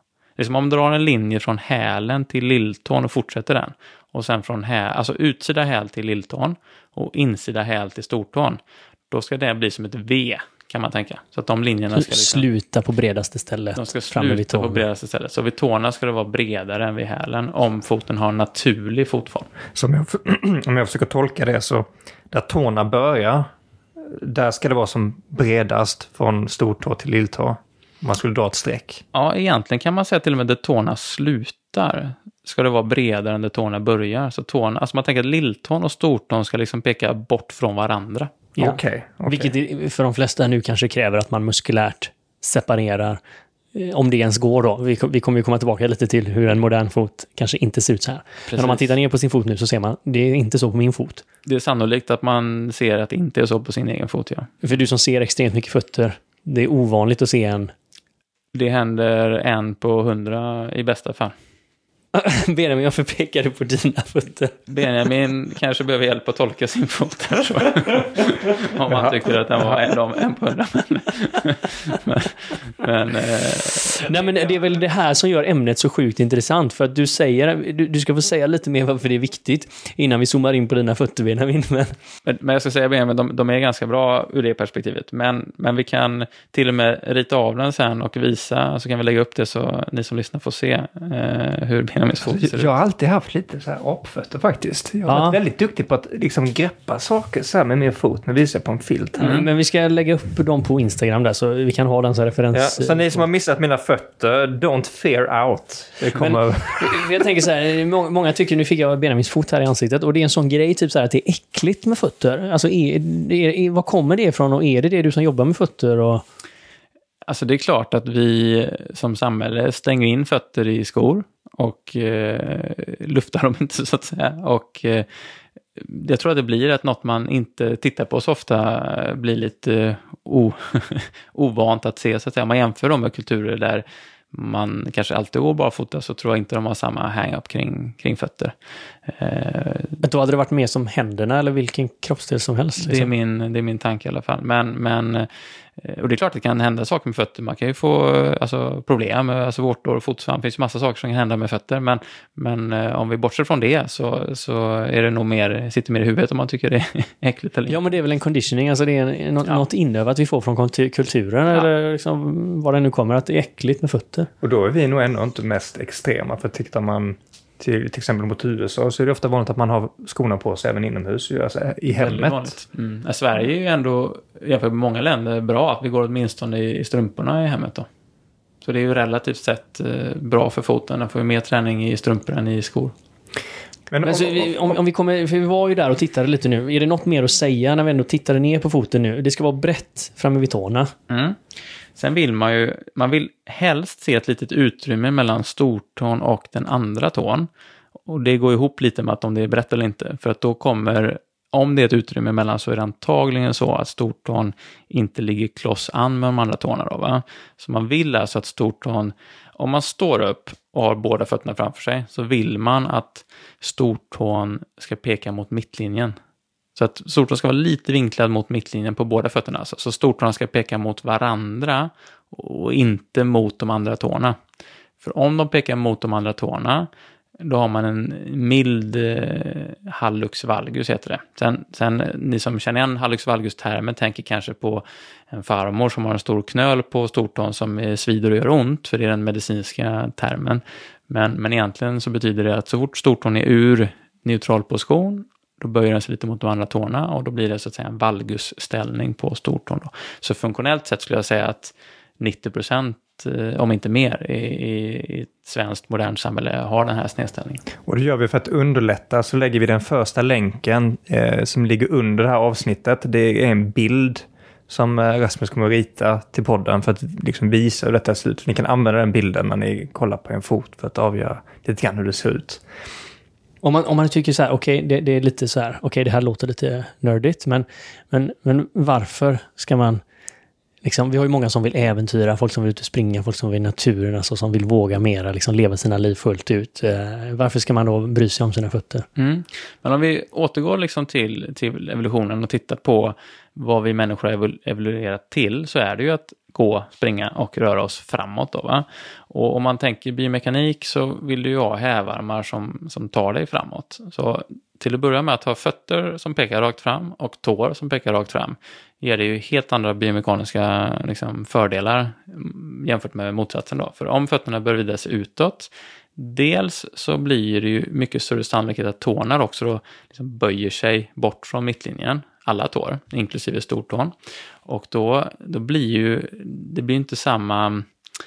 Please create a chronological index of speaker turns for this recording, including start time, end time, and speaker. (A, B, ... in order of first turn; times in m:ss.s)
0:00.4-0:12.5 A
0:11.9-0:14.8 B
0:13.7-0:19.5 A
0:19.7-0:23.5 C
0:24.1-0:29.0 C
0:29.1-0:38.3 A
0:38.6-0:43.2 B
0:38.6-0:39.5 C
0:43.7-0:51.2 B
0:48.5-0:48.9 A
0:51.4-0:54.5 A
0:54.6-0:57.7 B
0:58.5-1:01.3 A
1:02.1-1:04.6 B
1:04.7-1:14.0 A
1:14.0-1:21.9 B
1:22.2-1:32.7 A
1:32.2-1:39.4 C
1:35.0-1:35.4 B
1:39.2-1:43.2 B
1:39.2-1:39.4 A
1:42.5-1:47.3 C
1:46.1-1:56.2 B
1:57.2-2:05.1 A
2:05.8-2:18.5 A
2:19.1-2:20.0 A
2:20.0-2:23.1 B
2:22.8-2:37.8 A
2:37.7-2:44.3 B
2:44.4-2:52.6 C
2:51.9-2:57.9 A
2:58.6-3:02.9 A
3:03.9-3:04.8 C
3:04.0-3:10.9 B
3:11.1-3:11.4 A
3:12.0-3:17.5 A
3:18.1-3:36.2 A
3:36.7-3:44.4 A
3:45.0-4:17.6 A
4:17.8-4:32.6 C
4:33.6-4:40.0 B
4:40.8-4:49.0 B
4:49.2-5:24.1 A
5:24.6-5:27.9 A